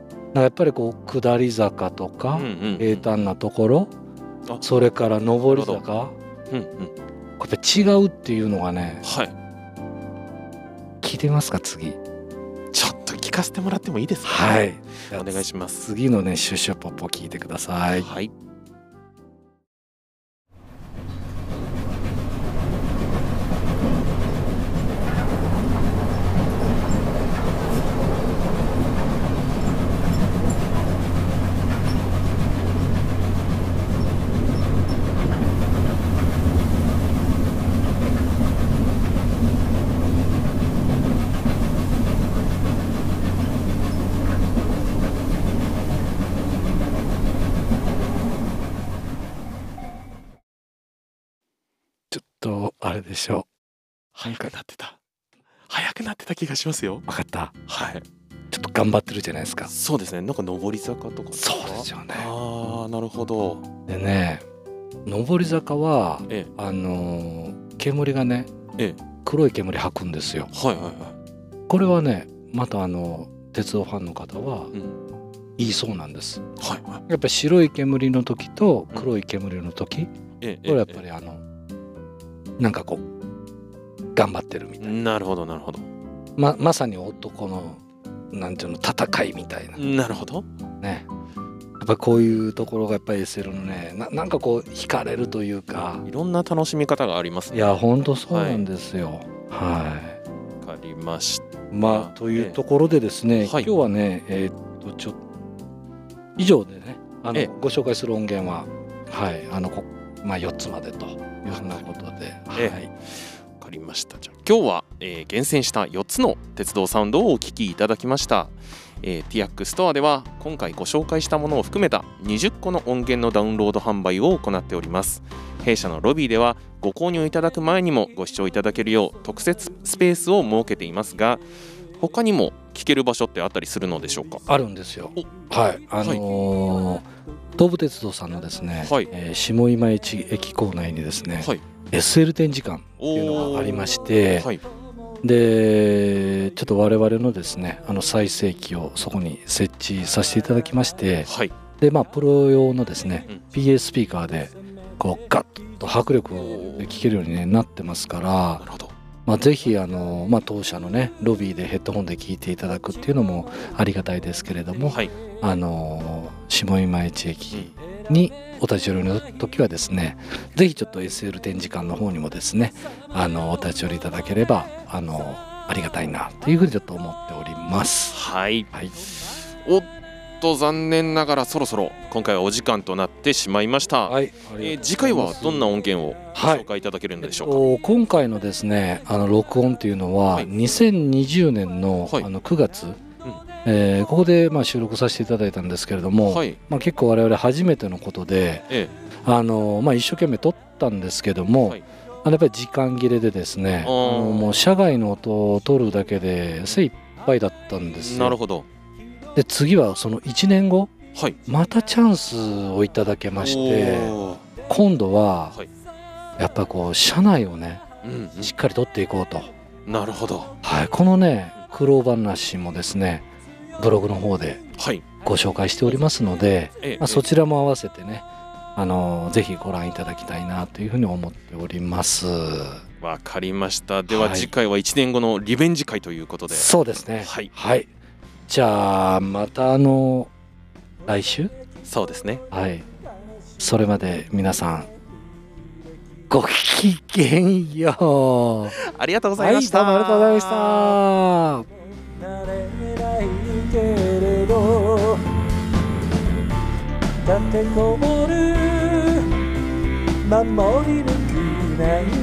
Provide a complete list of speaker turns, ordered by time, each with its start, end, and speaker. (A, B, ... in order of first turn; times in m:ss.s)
0:00.3-0:03.9 A
0:02.3-0:03.0 B
0:04.6-0:06.1 A
0:05.4-0:05.8 B
0:06.5-0:06.9 B
0:07.4-0:09.0 A
0:09.0-0:09.3 B
0:11.0-0:12.0 A
0:12.7-0:15.9 B
0:14.2-0:18.1 A
0:18.0-0:18.3 B
0:52.1-0:53.5 A
0:54.1-0:55.0 B
0:55.7-0:57.0 B
0:57.1-0:57.5 A
0:57.7-0:58.0 B
0:58.5-0:59.7 A
0:59.7-1:03.6 B
1:01.3-1:02.3 A
1:03.9-1:04.4 A
1:05.0-1:08.5 A
1:09.2-1:10.5 A
1:10.5-1:11.2 B
1:11.7-1:14.7 A
1:15.6-1:16.4 A
1:16.6-1:17.0 B
1:17.1-1:20.1 A
1:20.4-1:21.0 B
1:20.6-1:21.4 A
1:22.6-1:23.0 A
1:24.2-1:25.0 A
1:24.8-1:25.9 B
1:26.4-1:27.8 A
1:28.3-1:29.8 A
1:29.8-1:30.4 B
1:30.8-1:31.0 A
1:31.8-1:36.0 A
1:36.0-1:38.7 B
1:37.5-1:40.2 A
1:40.6-1:42.6 B
1:41.7-1:45.2 A
1:43.4-1:43.7 B
1:46.4-1:52.9 A
1:51.5-1:51.9 B
1:52.6-2:11.4 B
2:12.0-2:14.4 B
2:14.5-2:24.5 A
2:18.8-2:19.1 B
2:23.0-2:23.8 B
2:25.2-2:38.6 A
2:31.2-2:31.5 B
2:36.3-2:36.9 B
2:38.6-2:38.9 B
2:39.2-2:58.2 A
2:58.1-2:59.9 B
3:00.4-3:07.6 B
3:04.1-3:05.8 A
3:06.3-3:06.6 A
3:07.2-3:13.0 A
3:13.6-3:18.7 A
3:16.3-3:16.6 B
3:19.2-3:28.4 A
3:23.8-3:24.5 B
3:28.0-3:28.6 B
3:29.3-3:30.9 A
3:31.5-3:34.1 A
3:33.4-3:34.4 B
3:34.7-3:35.6 A
3:36.4-3:37.8 A
3:38.0-3:38.5 B
3:38.4-3:39.5 A
3:39.8-3:40.5 B
3:40.6-3:43.2 A
3:43.8-3:44.6 A
3:44.8-3:45.0 B
3:45.2-3:52.8 A
3:46.8-3:47.2 B
3:53.0-3:56.7 B
3:54.1-3:54.5 A
3:56.5-3:57.9 A
3:57.2-3:57.5 B
3:58.5-4:00.3 A
4:01.0-4:01.5 A
4:01.8-4:02.4 B
4:02.5-4:02.8 A
4:03.6-4:04.9 A
4:06.3-4:08.8 A
4:08.8-4:11.0 B
4:09.4-4:11.6 A
4:12.5-4:15.2 B
4:18.2-4:19.0 B
4:21.2-4:21.9 B